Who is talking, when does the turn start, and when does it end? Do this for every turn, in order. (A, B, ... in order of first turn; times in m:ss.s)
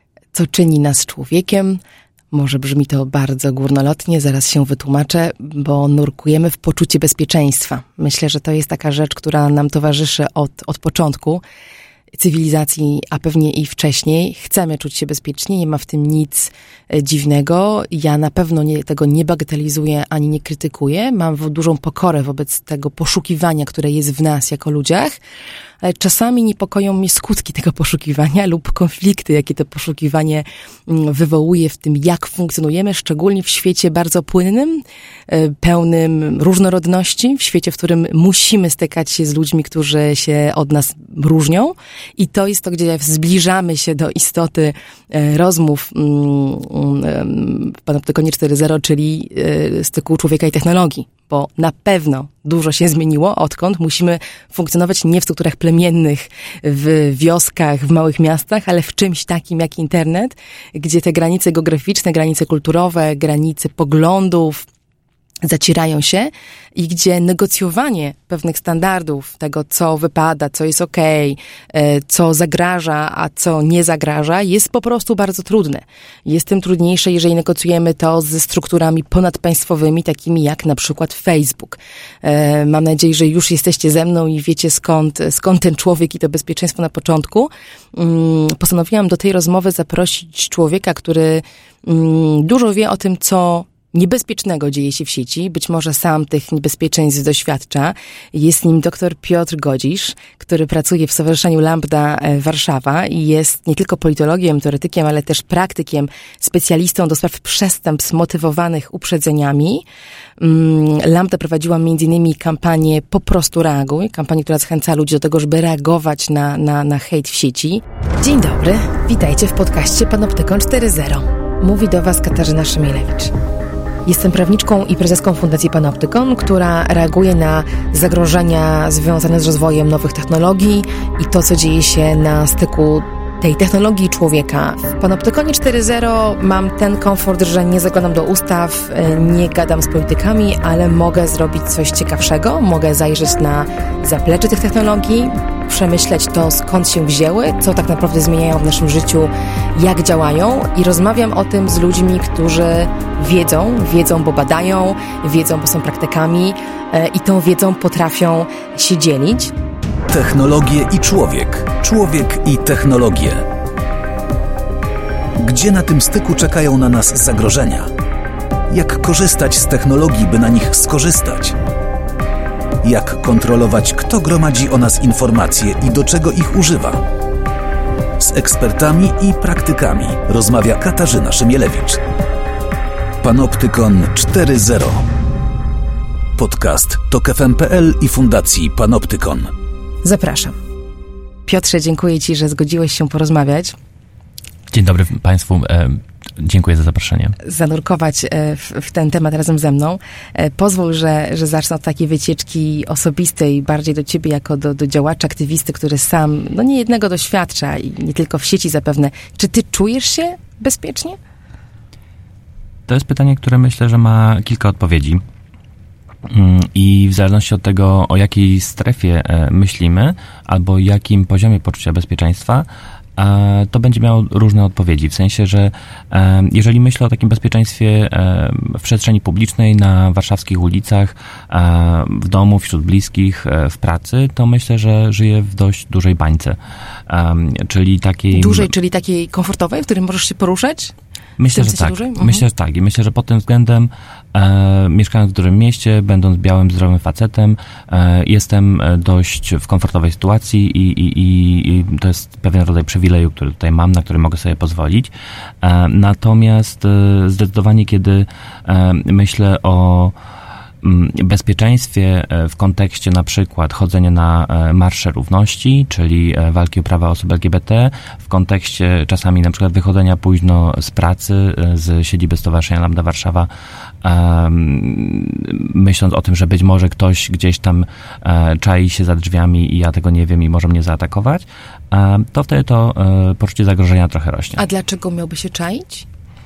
0:00.3-0:01.8 A
0:02.3-0:11.4 A
0:12.1-0:25.2 A
0:25.8-1:04.7 A
1:05.4-1:49.8 A
1:50.4-2:03.3 A
2:04.1-2:39.5 A
2:40.1-2:43.5 B
2:45.4-2:47.9 B
2:48.7-2:51.6 B
2:52.8-2:57.0 B
2:58.2-3:02.0 B
3:03.2-3:05.1 B
3:06.4-3:09.5 B
3:10.0-3:10.6 A
3:11.5-3:13.7 A
3:14.7-3:17.4 C
3:17.4-3:31.2 A
3:32.9-3:35.2 C
3:36.3-3:42.7 C
3:43.2-3:56.6 C
3:57.1-3:58.7 C
3:58.3-4:00.9 A
4:01.4-4:20.1 C
4:01.5-4:02.4 A
4:20.8-4:33.5 C
4:34.0-4:44.6 C
4:44.6-4:46.1 A